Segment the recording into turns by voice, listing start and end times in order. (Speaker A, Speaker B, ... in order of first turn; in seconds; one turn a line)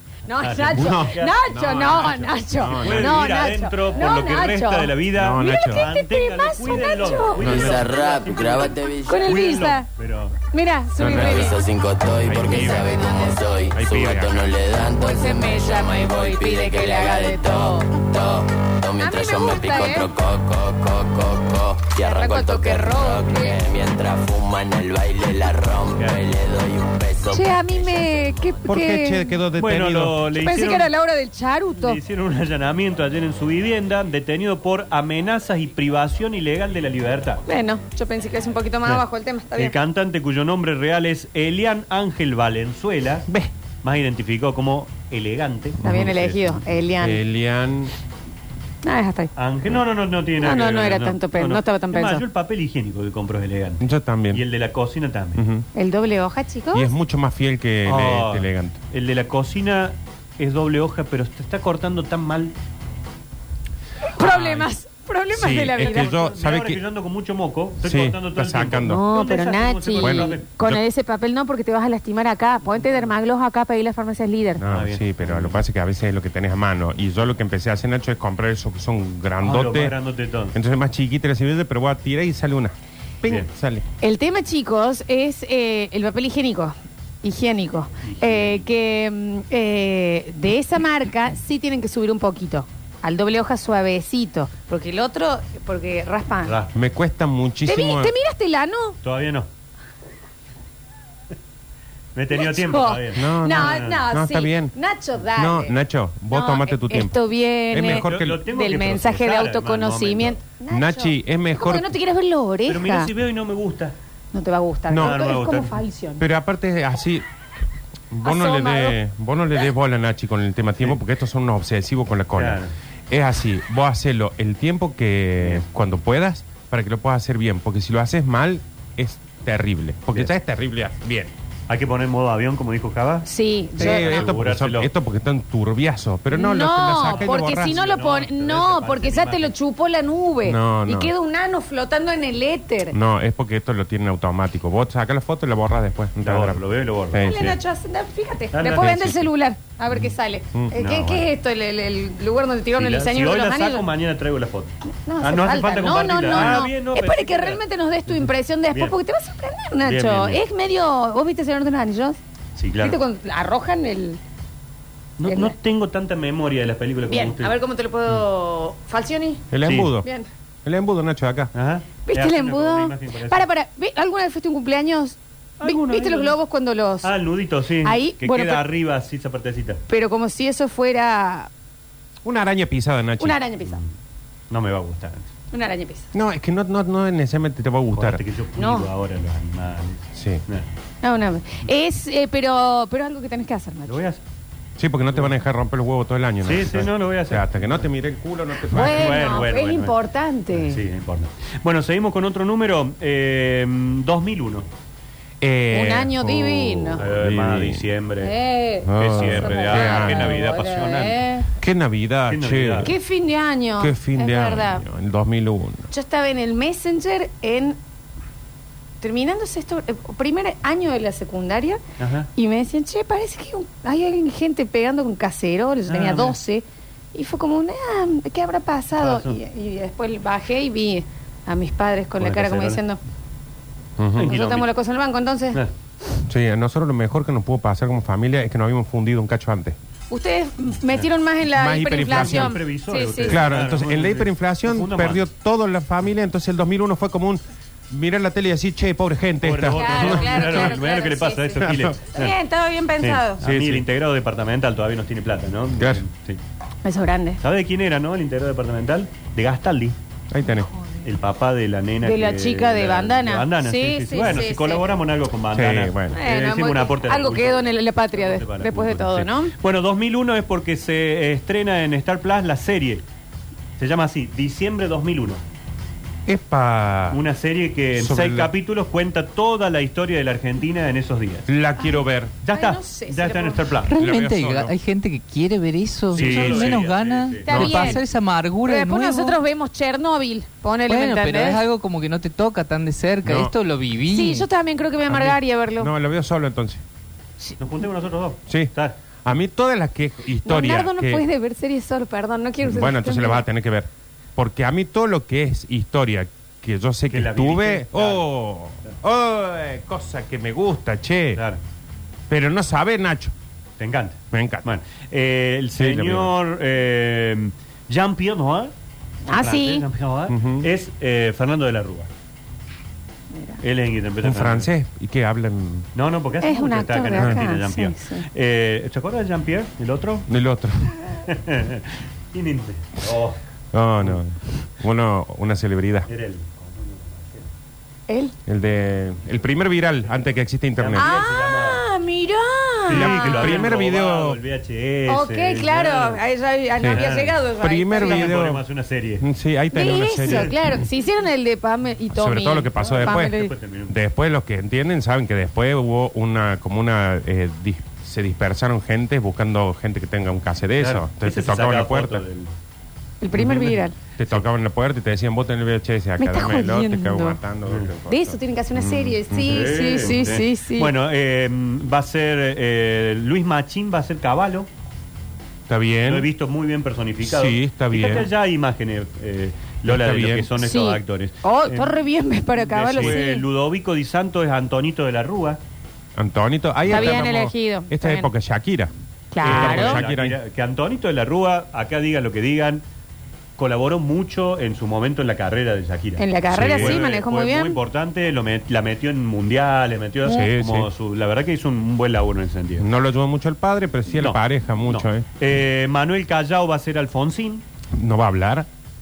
Speaker A: 0.3-7.8
Speaker B: 0.4-2.2
Speaker C: 0.7-3.3
Speaker B: 2.8-8.7
Speaker C: 5.2-5.9
Speaker C: 7.4-7.8
Speaker D: 7.4-9.3
Speaker A: 8.6-9.9
Speaker B: 9.2-10.4
Speaker A: 10.5-11.6
Speaker C: 11.0-11.5
Speaker D: 11.1-28.7
Speaker C: 12.2-13.0
Speaker A: 12.4-13.8
Speaker C: 13.8-14.5
Speaker A: 14.9-17.9
Speaker A: 19.0-20.1
Speaker A: 22.0-23.6
Speaker A: 27.3-29.4
Speaker C: 28.7-30.2
Speaker B: 29.6-30.9
Speaker A: 30.4-32.0
Speaker B: 31.8-37.4
Speaker A: 37.5-39.7
Speaker B: 39.5-43.3
Speaker B: 43.8-46.6
Speaker C: 45.8-46.2
Speaker A: 45.8-47.2
Speaker C: 47.0-47.9
Speaker A: 48.8-49.3
Speaker B: 49.4-55.4
Speaker A: 50.4-52.2
Speaker C: 53.8-54.4
Speaker C: 55.4-55.6
Speaker A: 55.8-56.9
Speaker C: 56.7-58.8
Speaker B: 57.9-62.5
Speaker A: 64.1-66.1
Speaker B: 64.2-64.6
Speaker C: 64.2-64.6
Speaker C: 65.3-66.8
Speaker B: 65.8-70.5
Speaker C: 67.8-69.0
Speaker A: 68.8-74.6
Speaker C: 70.0-70.8
Speaker C: 74.6-80.0
Speaker B: 74.6-75.6
Speaker B: 79.4-80.6
Speaker C: 80.5-83.8
Speaker A: 84.0-96.6
Speaker B: 88.0-88.7
Speaker B: 96.5-96.7
Speaker C: 96.7-98.1
Speaker A: 97.7-99.0
Speaker B: 99.0-99.5
Speaker B: 102.2-104.0
Speaker A: 102.3-105.8
Speaker C: 103.2-104.7
Speaker C: 105.3-107.2
Speaker A: 106.3-113.1
Speaker C: 107.7-108.4
Speaker B: 107.8-110.4
Speaker C: 110.7-111.9
Speaker B: 112.7-114.0
Speaker A: 114.3-116.2
Speaker C: 114.9-115.2
Speaker B: 115.0-115.8
Speaker C: 116.2-117.2
Speaker C: 118.1-131.3
Speaker A: 118.2-119.0
Speaker B: 122.4-122.7
Speaker B: 131.7-133.3
Speaker A: 133.3-134.3
Speaker B: 133.8-134.9
Speaker C: 133.8-137.8
Speaker A: 136.3-143.0
Speaker B: 136.9-139.5
Speaker C: 140.4-141.1
Speaker C: 142.9-146.6
Speaker B: 146.2-147.6
Speaker C: 147.1-147.6
Speaker A: 147.2-153.9
Speaker B: 148.5-149.0
Speaker C: 148.8-149.3
Speaker B: 150.7-151.3
Speaker B: 152.8-158.9
Speaker A: 155.1-162.2
Speaker B: 159.8-160.4
Speaker B: 162.6-163.0
Speaker A: 162.8-164.2
Speaker B: 165.2-167.6
Speaker A: 165.2-165.6
Speaker A: 167.1-169.4
Speaker C: 169.5-170.1
Speaker B: 169.7-169.9
Speaker C: 170.7-171.5
Speaker B: 171.5-173.5
Speaker A: 172.1-177.1
Speaker B: 175.6-176.3
Speaker B: 177.0-179.8
Speaker A: 177.8-178.7
Speaker A: 179.9-181.5
Speaker C: 182.2-183.4
Speaker A: 183.2-183.8
Speaker B: 183.6-183.9
Speaker B: 184.5-185.3
Speaker A: 185.5-186.1
Speaker C: 186.1-188.2
Speaker B: 187.9-190.7
Speaker A: 188.6-188.9
Speaker C: 190.2-190.4
Speaker A: 191.0-194.0
Speaker B: 193.9-194.2
Speaker C: 194.8-199.4
Speaker B: 196.4-197.7
Speaker A: 198.6-200.8
Speaker B: 198.7-199.9
Speaker B: 200.5-204.7
Speaker C: 205.4-207.9
Speaker A: 205.7-207.0
Speaker B: 207.0-208.3
Speaker A: 208.2-211.5
Speaker C: 208.8-210.4
Speaker B: 209.0-211.2
Speaker C: 211.6-212.9
Speaker B: 212.3-212.9
Speaker A: 212.8-214.8
Speaker C: 213.8-215.9
Speaker A: 215.9-217.8
Speaker A: 219.0-221.8
Speaker B: 222.0-222.3
Speaker A: 222.4-233.0
Speaker B: 225.9-226.4
Speaker B: 229.0-229.4
Speaker B: 232.2-232.8
Speaker C: 234.0-234.3
Speaker B: 234.2-234.7
Speaker A: 234.2-235.6
Speaker C: 236.3-239.8
Speaker A: 240.1-243.4
Speaker C: 241.5-242.6
Speaker B: 242.1-245.2
Speaker C: 243.3-250.8
Speaker B: 249.4-252.3
Speaker A: 249.7-253.4
Speaker C: 251.6-252.0
Speaker B: 253.0-256.4
Speaker C: 253.4-253.8
Speaker C: 255.8-256.0
Speaker A: 256.9-257.4
Speaker B: 257.4-260.0
Speaker C: 260.3-260.7
Speaker B: 261.0-273.0
Speaker A: 262.0-264.9
Speaker C: 265.5-266.2
Speaker A: 266.1-269.5
Speaker B: 273.8-275.4
Speaker C: 276.3-277.2
Speaker B: 277.1-281.5
Speaker C: 277.9-278.5
Speaker C: 281.5-282.4
Speaker B: 282.4-283.9
Speaker A: 282.5-283.6
Speaker E: 283.9-289.4
Speaker C: 283.9-284.7
Speaker B: 286.1-287.5
Speaker C: 286.1-286.8
Speaker A: 287.5-288.0
Speaker C: 287.5-288.0
Speaker A: 288.6-291.6
Speaker E: 290.9-294.5
Speaker C: 293.2-293.5
Speaker A: 294.1-295.9
Speaker C: 295.1-296.8
Speaker B: 297.6-299.0
Speaker C: 298.5-298.7
Speaker C: 299.2-301.2
Speaker A: 300.4-303.4
Speaker C: 302.6-311.4
Speaker B: 307.1-308.3
Speaker C: 312.3-313.3
Speaker B: 313.8-318.7
Speaker C: 314.3-314.7
Speaker C: 315.8-316.3
Speaker A: 319.3-319.9
Speaker B: 319.3-322.1
Speaker C: 320.3-320.7
Speaker B: 323.6-324.7
Speaker C: 324.2-325.9
Speaker B: 325.9-330.3
Speaker A: 326.4-328.3
Speaker C: 330.3-330.9
Speaker B: 331.2-333.4
Speaker C: 333.7-336.1
Speaker B: 336.1-337.5
Speaker A: 338.1-338.4
Speaker C: 338.5-341.1
Speaker B: 340.8-341.8
Speaker A: 341.0-343.7
Speaker C: 342.9-344.4
Speaker B: 342.9-346.2
Speaker A: 345.1-348.3
Speaker B: 346.9-347.4
Speaker C: 347.6-348.6
Speaker B: 348.0-349.3
Speaker C: 349.2-350.6
Speaker A: 349.7-353.5
Speaker B: 350.2-350.5
Speaker C: 352.1-353.4
Speaker B: 352.8-354.0
Speaker C: 353.9-362.2
Speaker B: 360.8-362.5
Speaker A: 363.2-363.9
Speaker B: 363.3-364.4
Speaker C: 364.2-369.8
Speaker A: 366.2-367.4
Speaker B: 367.6-367.9
Speaker A: 368.1-370.9
Speaker B: 369.4-374.7
Speaker C: 375.7-376.3
Speaker B: 376.1-381.9
Speaker C: 377.2-378.3
Speaker C: 379.8-380.5
Speaker A: 380.6-383.4
Speaker B: 382.6-385.6
Speaker C: 386.2-388.9
Speaker A: 386.9-388.3
Speaker A: 389.3-390.0
Speaker C: 389.4-390.4
Speaker B: 389.4-392.8
Speaker B: 393.6-402.9
Speaker A: 396.2-397.8
Speaker C: 396.5-397.0
Speaker C: 400.2-400.9
Speaker C: 402.8-405.3
Speaker B: 404.2-407.6
Speaker C: 407.9-408.7